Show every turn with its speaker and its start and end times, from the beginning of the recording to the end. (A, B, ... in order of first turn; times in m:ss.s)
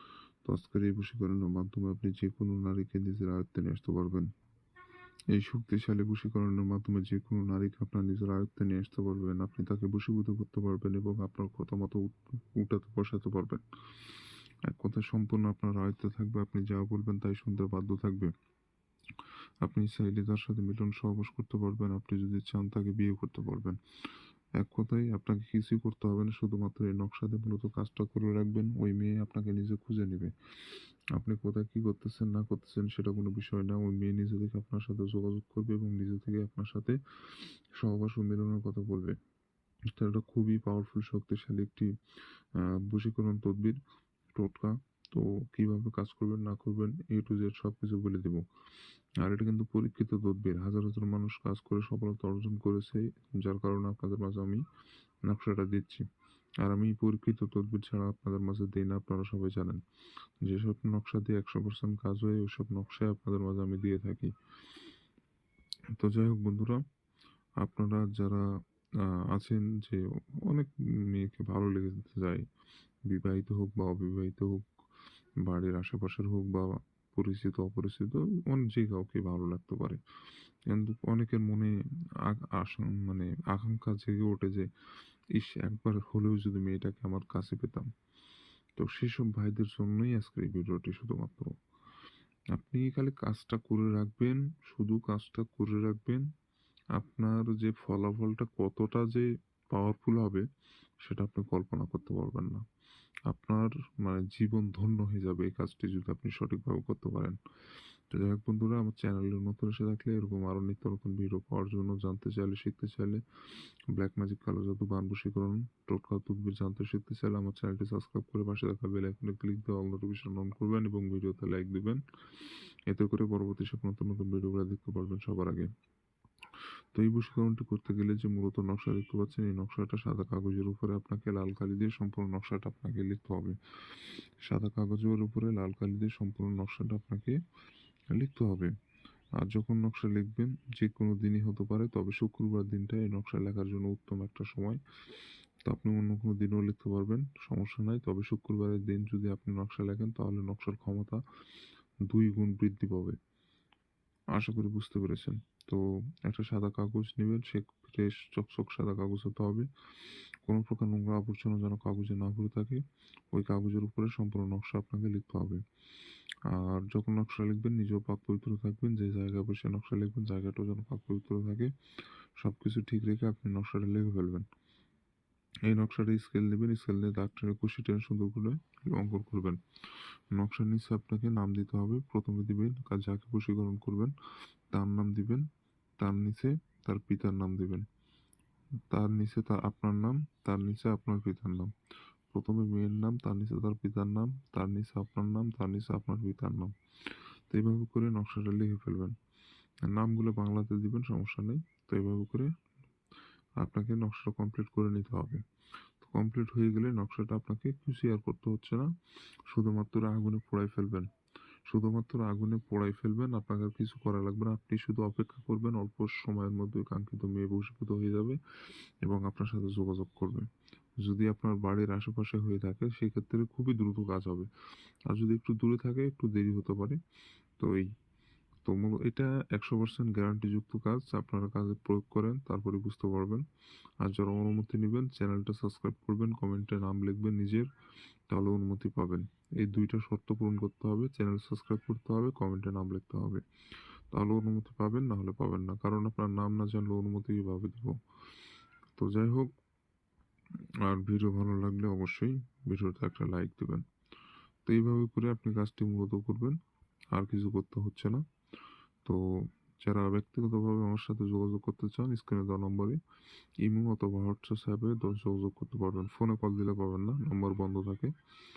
0:00.4-0:04.3 A
0:05.3-0:14.1 A
0:14.6-0:18.3 A
0:19.6-0:23.8 A
0:24.6-0:39.2 A
0:39.9-0:41.9 A
0:42.5-0:43.8 A
0:44.3-0:48.4 A
0:49.2-0:54.6 A
0:55.2-0:56.0 A
0:56.6-0:59.8 A
1:00.4-1:04.3 A
1:05.9-1:06.8 A
1:07.6-1:08.5 A
1:09.0-1:12.4 A
1:13.0-1:14.7 A
1:15.4-1:20.0 A
1:20.7-1:24.6 A
1:25.3-1:27.9 A
1:28.8-1:31.5 A
1:32.5-1:36.2 A
1:36.9-1:40.4 A
1:41.0-1:42.6 A
1:43.3-1:47.4 A
1:48.1-1:53.2 A
1:53.9-2:05.7 A
2:06.9-2:17.4 A
2:18.1-2:18.7 A
2:19.4-2:24.8 A
2:25.6-2:31.2 A
2:32.0-2:33.2 A
2:34.3-2:45.6 A
2:46.5-2:51.7 A
2:52.4-2:54.5 A
2:55.6-2:59.6 A
3:00.3-3:04.1 A
3:04.7-3:05.4 A
3:06.0-3:07.8 A
3:08.9-3:11.7 A
3:12.3-3:19.1 A
3:19.8-3:22.5 A
3:23.6-3:25.4 A
3:26.0-3:28.9 A
3:29.5-3:31.1 A
3:31.6-3:38.4 A
3:39.0-3:44.5 A
3:45.0-3:47.0 A
3:47.6-3:47.9 A
3:48.6-3:53.4 A
3:54.0-3:57.7 A
3:58.3-4:03.4 A
4:04.1-4:08.0 A
4:08.9-4:09.5 A
4:10.8-4:13.8 A
4:14.6-4:16.6 A
4:17.1-4:18.2 A
4:19.0-4:23.0 A
4:23.6-4:28.1 A